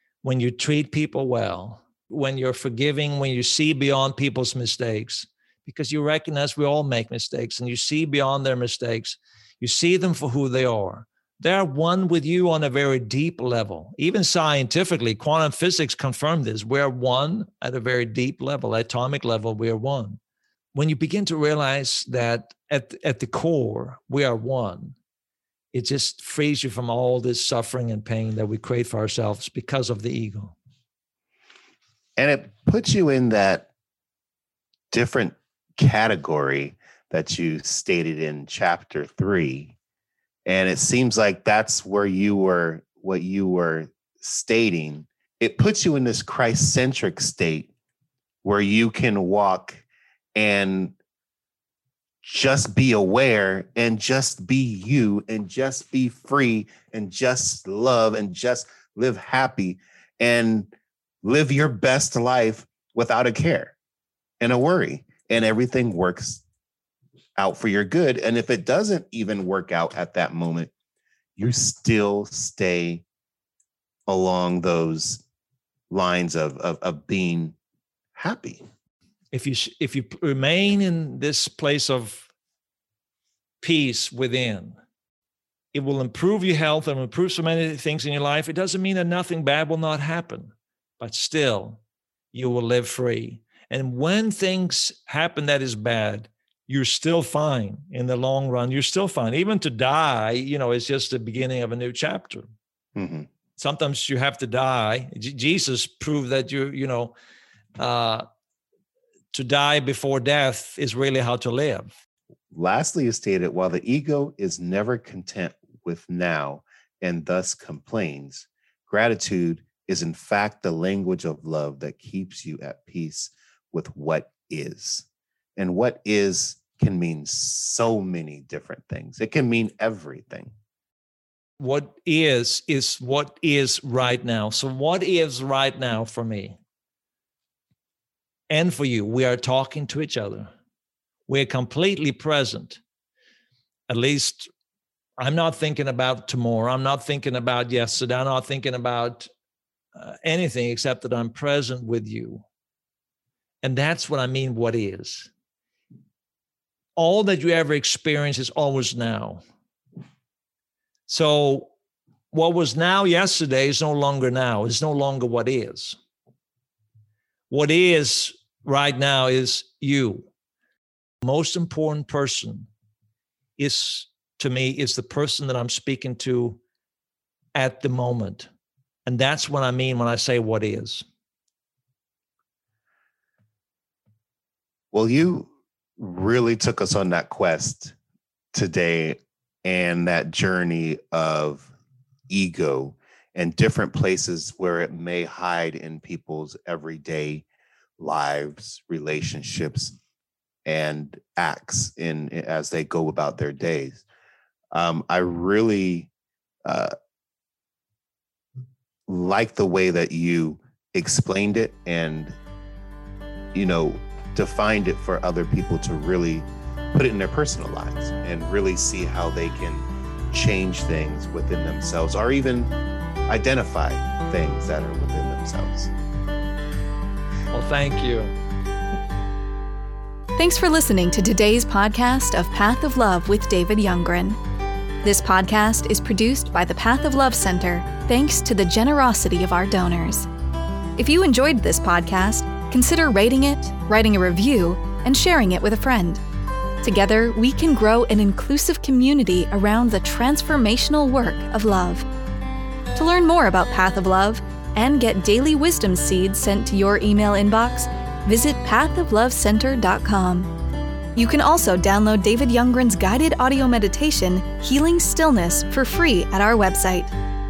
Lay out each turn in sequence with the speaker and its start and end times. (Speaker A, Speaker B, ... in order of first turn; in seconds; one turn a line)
Speaker A: 0.2-20.2
Speaker A: 20.7-24.9
Speaker A: 25.7-30.6
Speaker B: 32.2-33.7
Speaker B: 34.9-39.8
Speaker B: 40.5-47.7
Speaker B: 48.4-49.8
Speaker B: 50.3-50.9
Speaker B: 52.2-60.7
Speaker B: 61.2-63.7
Speaker B: 64.4-66.4
Speaker B: 67.3-70.7
Speaker B: 71.4-73.0
Speaker B: 74.1-75.2
Speaker B: 75.9-77.5
Speaker B: 78.1-78.6
Speaker A: 79.3-82.3
Speaker A: 83.6-84.8
Speaker A: 85.7-91.8
Speaker A: 92.3-102.5
Speaker B: 103.0-103.3
Speaker A: 103.6-107.1
Speaker A: 107.8-108.2
Speaker A: 109.3-111.9
Speaker B: 112.5-125.0
Speaker B: 125.6-130.5
Speaker A: 131.6-136.6
Speaker A: 138.5-140.5
Speaker A: 141.3-142.8
Speaker A: 143.9-144.5
Speaker A: 145.2-149.3
Speaker A: 149.9-152.4
Speaker A: 153.6-155.3
Speaker A: 156.9-159.4
Speaker A: 161.1-161.7
Speaker A: 162.3-166.0
Speaker A: 167.5-170.3
Speaker A: 171.2-172.7
Speaker A: 173.6-176.6
Speaker A: 177.5-178.5
Speaker A: 179.1-181.0
Speaker B: 184.9-187.9
Speaker B: 188.5-191.7
Speaker B: 192.3-197.4
Speaker B: 198.0-199.9
Speaker B: 200.6-204.0
Speaker B: 204.7-206.1
Speaker B: 206.6-206.9
Speaker B: 209.1-212.3
Speaker B: 213.5-222.7
Speaker B: 223.3-225.9
Speaker A: 227.5-228.3
Speaker C: 230.4-234.4
Speaker C: 235.0-240.3
Speaker C: 241.0-246.2
Speaker C: 246.8-252.1
Speaker C: 252.9-260.5
Speaker C: 261.1-267.1